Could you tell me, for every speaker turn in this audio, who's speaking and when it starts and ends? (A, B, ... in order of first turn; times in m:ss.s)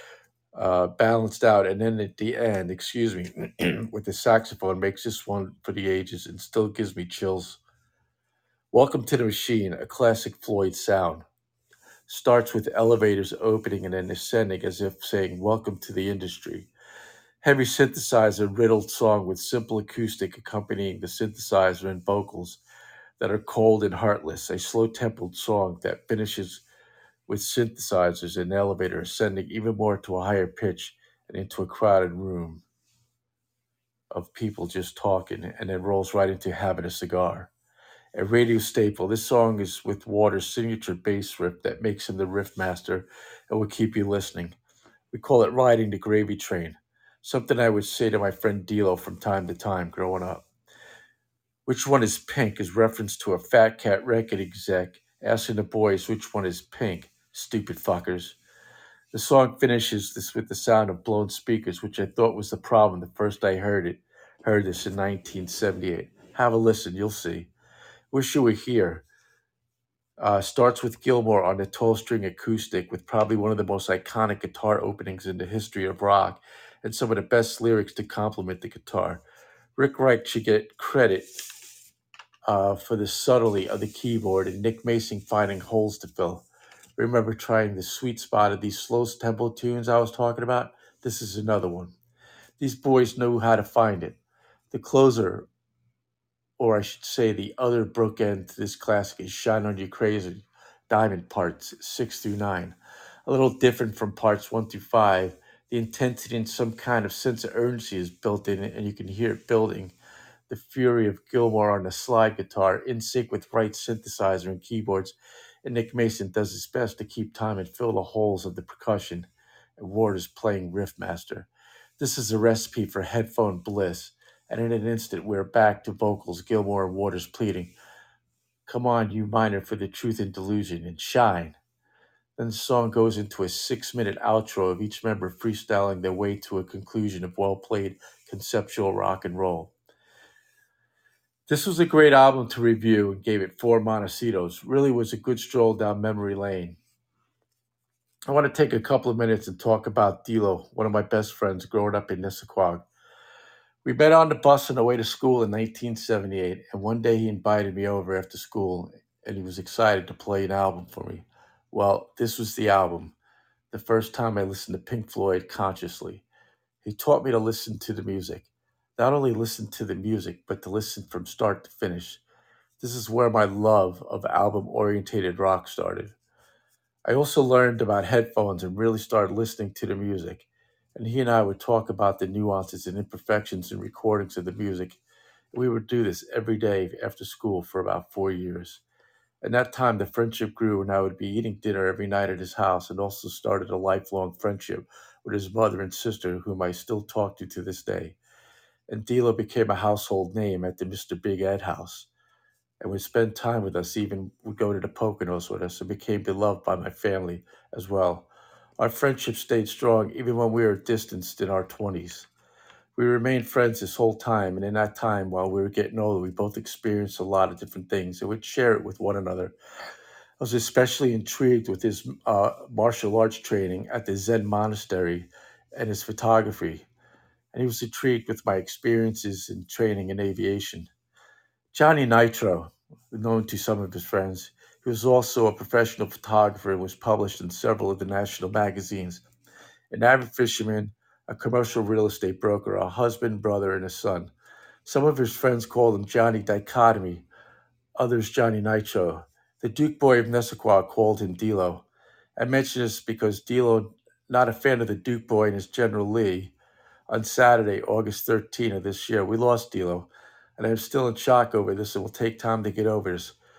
0:00.5-0:07.6 A
0:08.7-0:11.2 A
0:12.1-0:16.7 A
0:17.4-0:22.6 A
0:23.2-0:26.6 A
0:27.3-0:32.6 A
0:34.1-0:37.5 A
0:38.1-0:44.6 A
0:45.1-0:50.5 A
0:51.7-0:58.4 A
0:59.1-1:07.5 A
1:08.1-1:09.0 A
1:10.2-1:19.2 A
1:19.8-1:21.4 A
1:22.5-1:26.5 A
1:27.0-1:31.9 A
1:32.6-1:34.2 A
1:34.7-1:35.5 A
1:36.6-1:42.8 A
1:43.3-1:49.9 A
1:50.5-2:07.7 A
2:08.7-2:11.6 A
2:12.4-2:19.7 A
2:21.5-2:26.8 A
2:28.3-2:32.8 A
2:33.8-2:43.1 A
2:43.7-2:46.2 A
2:46.8-2:52.2 A
2:52.8-2:56.1 A
2:57.0-3:05.0 A
3:05.5-3:08.8 A
3:09.4-3:18.2 A
3:18.9-3:22.1 A
3:22.8-3:28.3 A
3:28.8-3:32.3 A
3:33.0-3:39.5 A
3:40.4-3:46.8 A
3:47.5-3:50.9 A
3:51.7-3:59.2 A
3:59.9-4:04.3 A
4:04.8-4:07.3 A
4:08.0-4:11.8 A
4:12.4-4:16.5 A
4:17.1-4:23.4 A